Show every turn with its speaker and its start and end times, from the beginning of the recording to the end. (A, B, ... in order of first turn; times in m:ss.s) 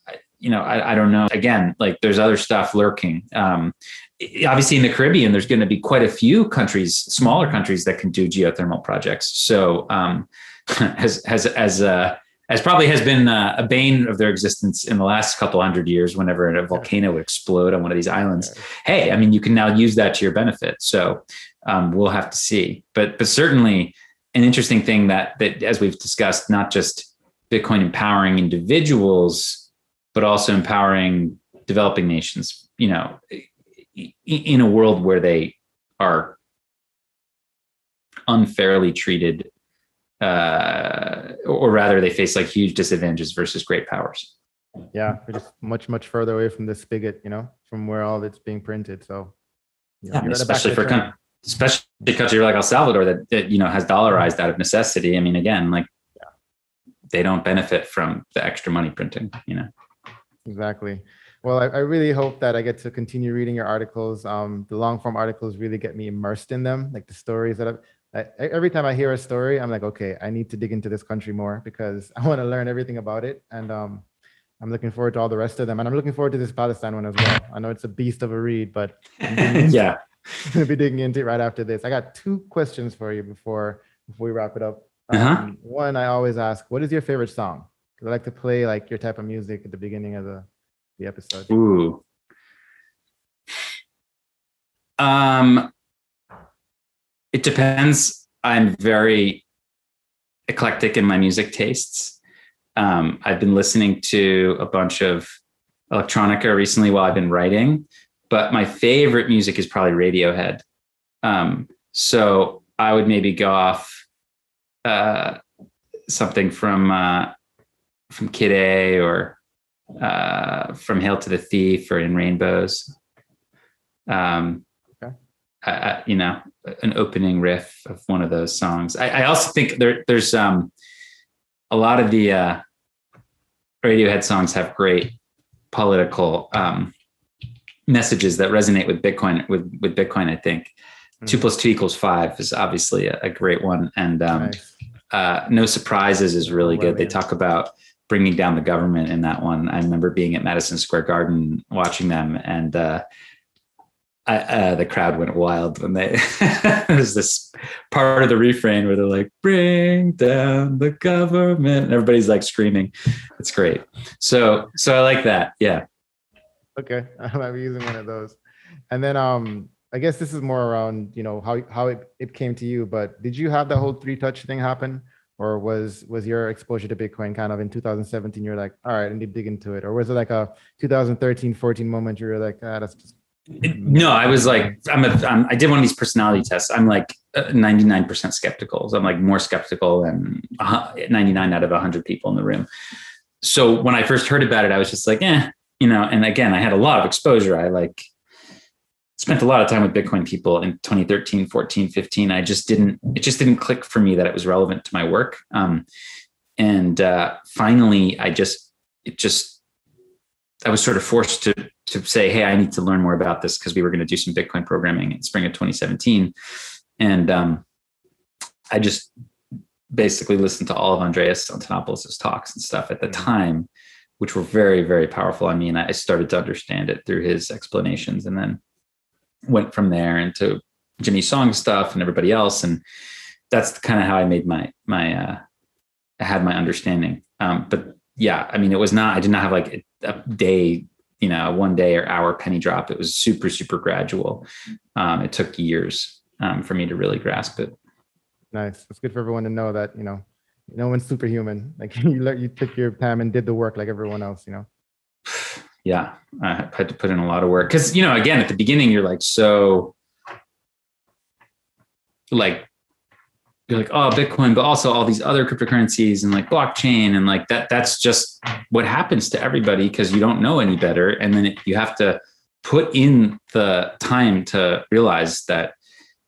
0:00.4-0:36.4 A
0:38.3-0:39.5 A
0:40.2-0:44.3 A
0:44.9-0:49.3 B
0:50.0-0:51.1 B
0:50.1-0:55.9 A
0:57.1-0:59.7 A
1:00.4-1:14.0 B
1:14.6-1:19.8 B
1:19.2-1:20.0 A
1:20.4-1:30.5 B
1:25.1-1:25.4 A
1:31.0-1:31.5 B
1:31.5-1:32.0 A
1:35.0-1:35.7 A
1:37.3-1:39.4 A
1:40.5-1:42.2 A
1:42.8-1:45.4 A
1:45.9-1:50.6 A
1:51.2-1:54.0 A
1:54.8-1:55.4 A
1:56.1-1:57.3 A
1:58.1-1:59.4 A
2:00.0-2:02.9 A
2:04.1-2:04.6 A
2:05.6-2:10.7 A
2:11.7-2:12.6 A
2:13.8-2:15.1 A
2:15.7-2:16.9 A
2:17.9-2:20.7 A
2:21.3-2:24.6 A
2:24.4-2:24.6 B
2:25.1-2:33.0 A
2:26.4-2:27.2 B
2:34.3-2:45.8 A
2:46.8-2:48.4 B
2:48.9-3:03.1 B
3:03.6-3:12.7 A
3:03.7-3:04.8 B
3:13.4-3:18.1 A
3:19.2-3:25.9 A
3:26.6-3:29.6 A
3:30.6-3:36.3 A
3:37.0-3:37.6 A
3:38.7-3:39.1 A
3:39.9-3:43.7 A
3:44.2-3:48.6 A
3:49.4-3:52.8 A
3:53.5-3:55.4 A
3:56.2-4:07.8 A
4:08.5-4:14.7 B
4:15.3-4:19.9 A
4:22.3-4:22.7 A
4:23.7-4:35.8 A